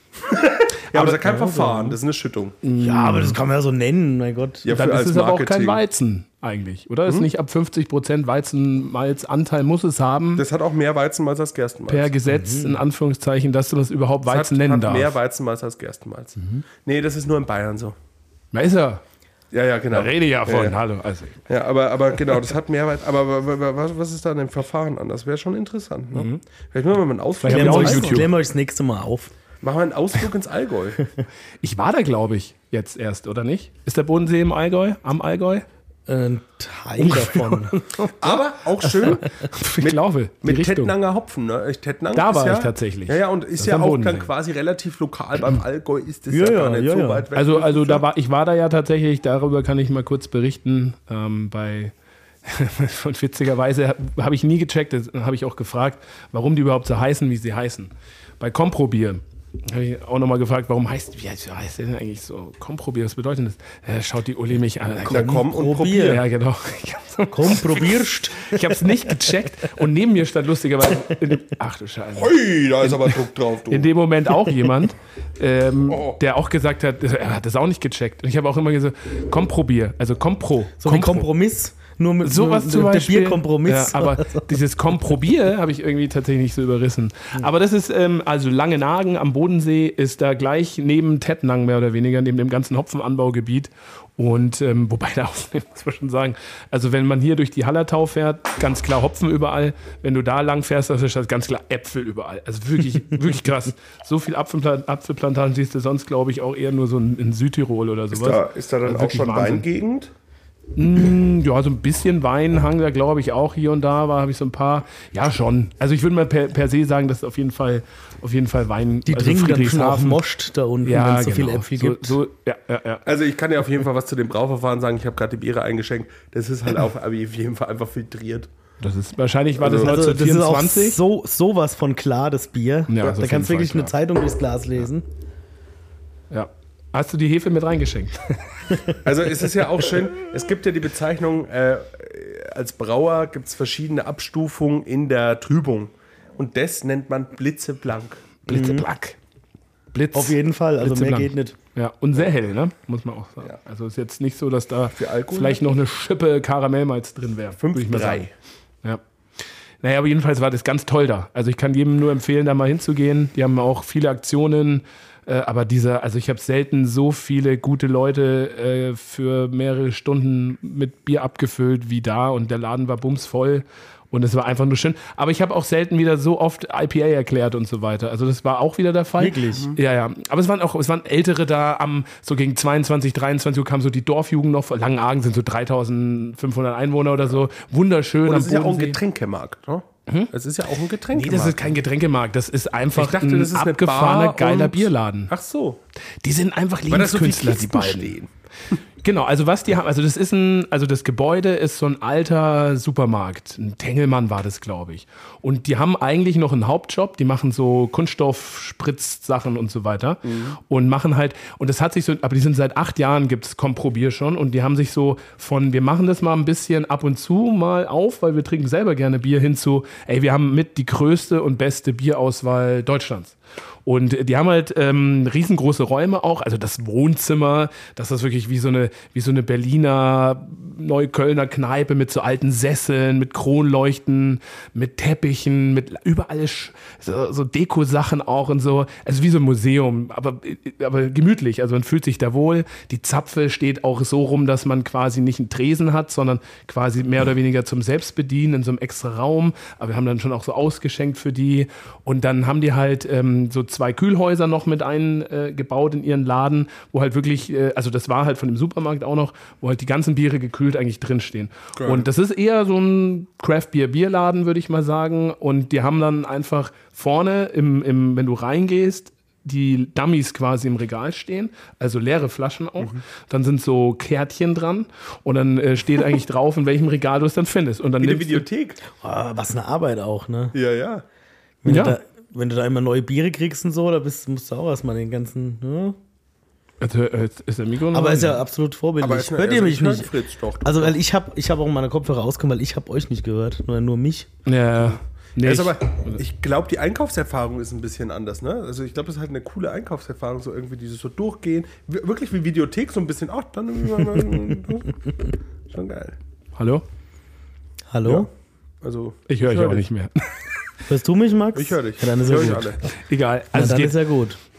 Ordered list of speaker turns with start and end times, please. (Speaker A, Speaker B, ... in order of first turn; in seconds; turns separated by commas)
Speaker A: 0.2-2.6, Speaker B: 1.0-1.9, Speaker C: 2.6-3.4, Speaker B: 2.8-4.7, Speaker A: 4.6-5.8, Speaker C: 4.7-10.4, Speaker A: 10.4-12.1, Speaker C: 11.9-15.1, Speaker B: 12.3-12.8, Speaker A: 14.2-17.9, Speaker C: 18.5-19.0, Speaker A: 19.5-20.8, Speaker C: 19.9-21.4, Speaker A: 21.5-28.2, Speaker C: 26.1-26.4, Speaker C: 27.4-28.3, Speaker B: 27.4-29.3, Speaker A: 29.6-31.0, Speaker C: 31.6-35.6, Speaker B: 36.1-38.3, Speaker C: 37.0-37.8, Speaker A: 38.2-48.0, Speaker C: 39.0-40.9, Speaker C: 42.1-44.3, Speaker B: 46.3-47.3, Speaker C: 47.3-51.9, Speaker C: 52.4-73.2, Speaker A: 65.0-66.2, Speaker B: 65.1-66.2, Speaker B: 67.3-69.3, Speaker A: 72.2-73.9, Speaker C: 73.7-81.2, Speaker A: 75.9-76.2, Speaker B: 80.8-84.5, Speaker C: 82.2-109.6, Speaker A: 108.1-110.1, Speaker C: 110.7-120.2, Speaker B: 119.1-122.2, Speaker C: 120.8-123.0, Speaker A: 123.0-128.5, Speaker C: 128.8-131.0, Speaker A: 129.6-130.0, Speaker B: 129.7-135.1, Speaker C: 132.9-133.9, Speaker C: 136.3-138.8, Speaker A: 139.0-148.2, Speaker C: 148.4-149.2, Speaker B: 148.5-148.8, Speaker C: 149.9-158.3, Speaker B: 150.1-151.6, Speaker A: 154.9-155.6, Speaker A: 157.6-158.3, Speaker C: 159.8-189.0, Speaker B: 179.2-179.7, Speaker A: 188.2-191.6, Speaker C: 191.1-195.3, Speaker A: 192.9-195.8, Speaker C: 196.2-198.2, Speaker A: 196.9-198.3, Speaker C: 199.0-278.4, Speaker A: 210.2-210.6, Speaker A: 261.8-262.1, Speaker A: 278.0-278.8, Speaker B: 279.0-280.5, Speaker A: 280.5-281.0, Speaker B: 281.6-286.0, Speaker C: 281.7-282.0, Speaker C: 286.8-288.4, Speaker B: 287.9-294.3, Speaker A: 289.0-291.0, Speaker C: 294.4-296.2, Speaker A: 295.4-305.0, Speaker A: 305.7-306.1, Speaker C: 306.6-306.8, Speaker B: 307.9-308.3, Speaker A: 308.0-308.3, Speaker A: 308.8-309.8, Speaker C: 309.3-310.5, Speaker B: 310.9-312.8, Speaker A: 311.5-312.8, Speaker C: 312.8-314.0, Speaker B: 313.5-314.4